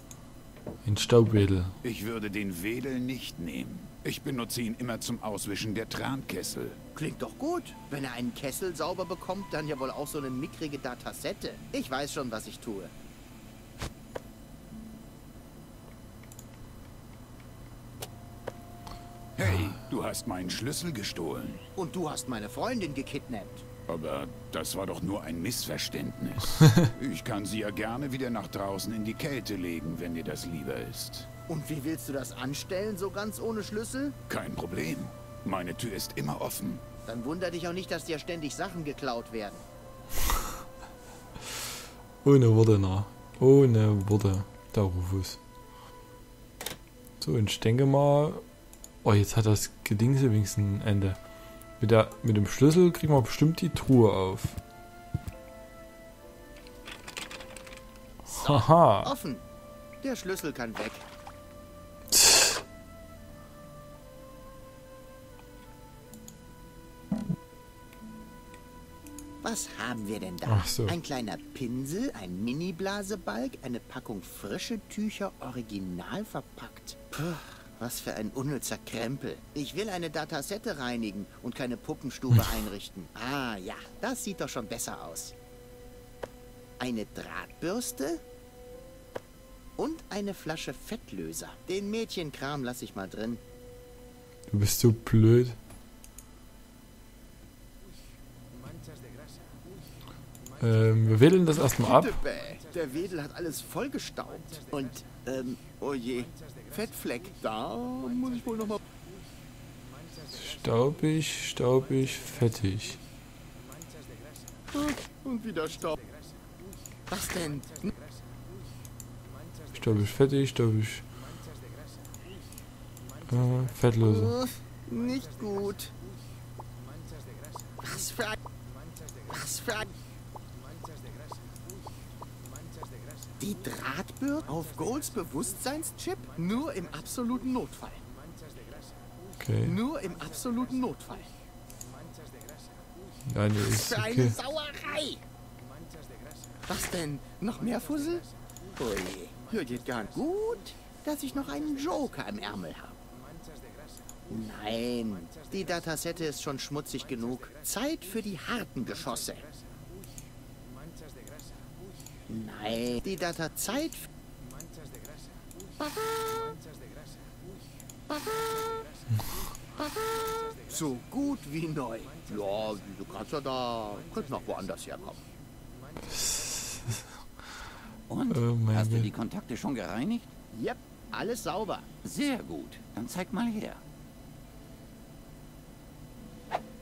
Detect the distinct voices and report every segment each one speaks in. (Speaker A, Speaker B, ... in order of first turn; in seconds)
Speaker A: 0.8-1.7, 42.2-45.4, 47.2-48.4, 49.0-51.2, 51.8-54.6, 58.4-59.1, 62.1-62.6, 70.5-71.0, 94.5-95.6, 100.6-102.2, 110.3-113.0, 119.7-121.0, 123.3-124.3, 139.4-139.8, 143.3-144.4, 176.1-177.0, 178.3-179.1
Speaker B: 1.8-6.8, 19.4-21.6, 23.9-31.3, 34.3-36.8
Speaker C: 6.9-12.9, 21.8-23.6, 31.5-34.1, 37.0-39.6, 58.3-59.4, 60.0-61.1, 69.4-85.3, 86.8-88.2, 89.8-93.4, 101.8-108.8, 114.7-116.0, 117.1-117.9, 124.0-125.9, 127.8-128.4, 129.3-129.9, 133.4-138.0, 139.6-141.3, 143.6-145.2, 146.7-153.0, 154.3-159.5, 162.3-164.1, 165.8-166.5, 168.1-168.6, 169.8-175.2, 180.5-181.9
Speaker D: 178.1-180.3, 182.0-183.8